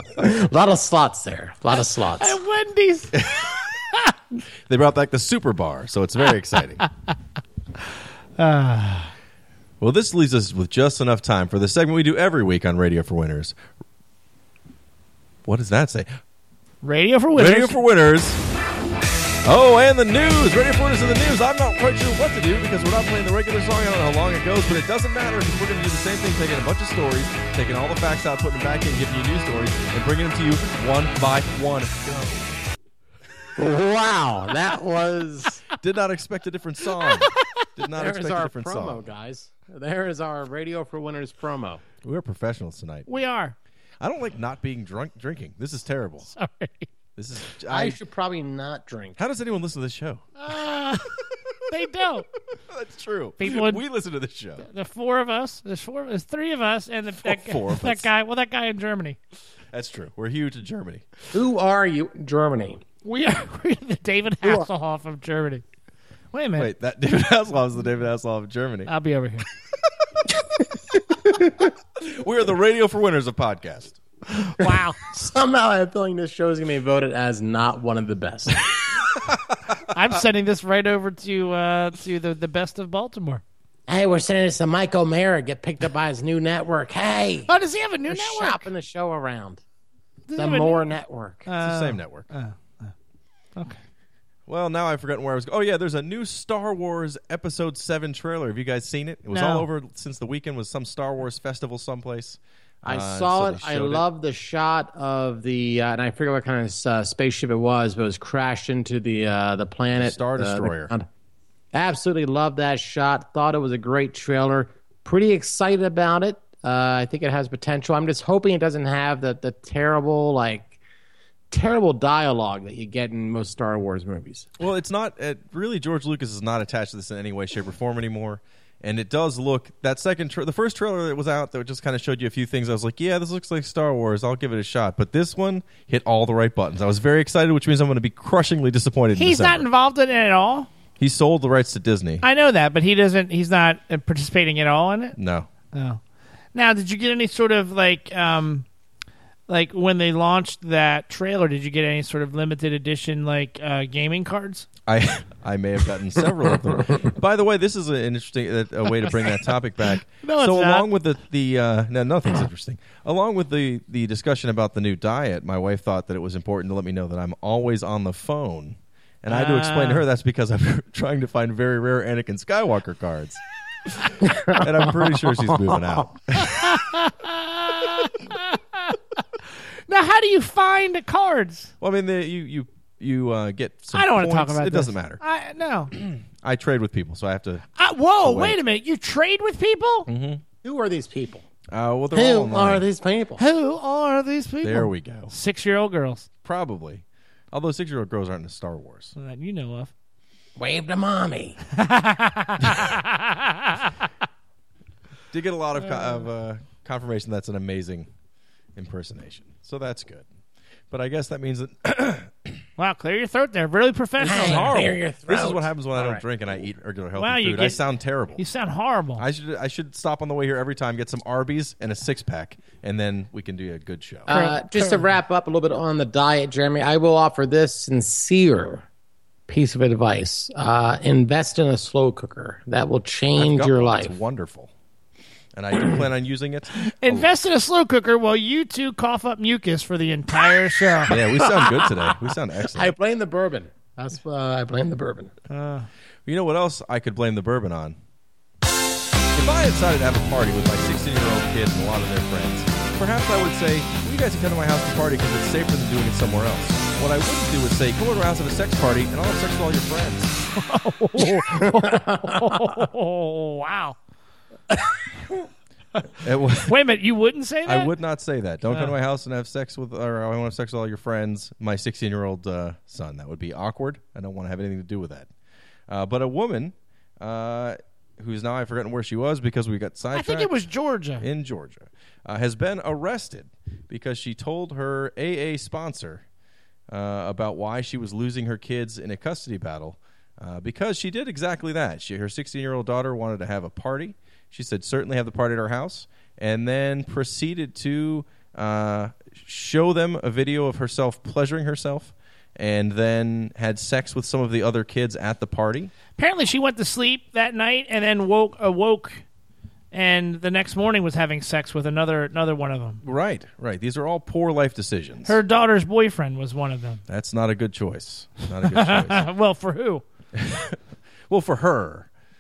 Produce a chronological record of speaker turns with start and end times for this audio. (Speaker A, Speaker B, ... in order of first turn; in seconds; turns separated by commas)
Speaker A: 0.1-2.4, Speaker B: 2.2-3.3, Speaker C: 3.1-3.5, Speaker C: 4.7-6.9, Speaker B: 8.4-9.1, Speaker C: 9.8-13.6, Speaker C: 15.4-16.1, Speaker B: 16.8-17.8, Speaker C: 17.3-18.4, Speaker C: 19.4-32.6, Speaker A: 33.6-35.6, Speaker C: 35.8-39.0, Speaker B: 37.1-37.6, Speaker A: 38.0-41.8, Speaker C: 42.0-43.1, Speaker B: 43.1-43.5, Speaker C: 44.0-46.3, Speaker B: 46.3-46.9, Speaker C: 47.2-48.0, Speaker A: 47.7-49.2, Speaker C: 49.2-50.3, Speaker B: 50.4-51.1, Speaker B: 51.7-52.3, Speaker C: 52.7-54.6, Speaker B: 53.4-53.8, Speaker B: 54.6-59.2, Speaker C: 57.2-58.1, Speaker C: 59.7-61.0, Speaker A: 61.3-62.8, Speaker B: 63.0-65.6, Speaker B: 66.3-66.7, Speaker C: 66.6-68.9, Speaker B: 68.9-69.5, Speaker A: 71.3-71.6, Speaker C: 72.0-74.0, Speaker B: 74.5-75.2, Speaker A: 75.2-78.6, Speaker B: 79.9-83.4, Speaker A: 83.9-87.5, Speaker B: 87.5-88.7, Speaker A: 88.1-89.6, Speaker B: 90.3-90.9, Speaker A: 90.4-91.5, Speaker B: 91.5-92.9, Speaker C: 91.6-92.3, Speaker C: 94.5-104.0, Speaker B: 99.3-99.7, Speaker A: 102.8-111.1, Speaker C: 109.9-110.9, Speaker A: 111.7-120.8, Speaker A: 121.5-124.5, Speaker C: 124.6-139.7, Speaker B: 139.2-140.7, Speaker C: 141.0-142.2, Speaker B: 142.2-145.2, Speaker C: 145.2-145.5, Speaker B: 145.7-146.0, Speaker B: 146.6-148.7, Speaker B: 149.5-154.7, Speaker C: 154.9-176.8, Speaker B: 160.2-160.9, Speaker B: 169.3-170.1, Speaker B: 176.4-179.0, Speaker B: 179.9-181.7, Speaker C: 181.8-185.2, Speaker B: 183.9-185.9, Speaker C: 185.9-187.7, Speaker B: 187.8-190.1, Speaker C: 188.2-188.6, Speaker C: 190.1-190.4, Speaker A: 190.6-191.4, Speaker C: 191.7-192.8, Speaker A: 192.1-193.4, Speaker B: 193.4-196.3, Speaker C: 194.6-195.3, Speaker C: 196.4-199.2, Speaker B: 199.2-199.9, Speaker A: 200.6-201.6, Speaker B: 201.7-203.9, Speaker C: 205.3-208.1, Speaker B: 205.8-206.2, Speaker C: 208.8-210.3, Speaker C: 210.9-212.6, Speaker B: 212.8-214.8, Speaker A: 214.2-216.2, Speaker C: 214.2-218.4, Speaker B: 217.2-217.8, Speaker B: 218.4-219.2, Speaker C: 219.2-224.3, Speaker A: 224.3-228.8, Speaker B: 224.3-225.0, Speaker A: 229.5-234.1, Speaker C: 233.4-234.7, Speaker C: 235.5-237.3, Speaker B: 236.8-241.2, Speaker C: 241.1-242.9, Speaker A: 242.7-245.3, Speaker B: 245.5-245.9, Speaker C: 246.3-248.0, Speaker C: 249.3-260.4, Speaker B: 260.6-264.0, Speaker A: 261.4-262.6, Speaker C: 266.2-266.8, Speaker B: 266.7-267.9, Speaker C: 267.6-275.3, Speaker C: 275.9-280.5, Speaker B: 280.1-281.3, Speaker C: 281.2-286.2, Speaker C: 286.9-305.9, Speaker B: 306.2-309.2, Speaker B: 309.9-313.0, Speaker C: 313.0-315.4, Speaker B: 315.2-317.0, Speaker C: 317.1-319.3, Speaker B: 318.7-320.0, Speaker C: 320.3-320.8, Speaker C: 321.3-322.1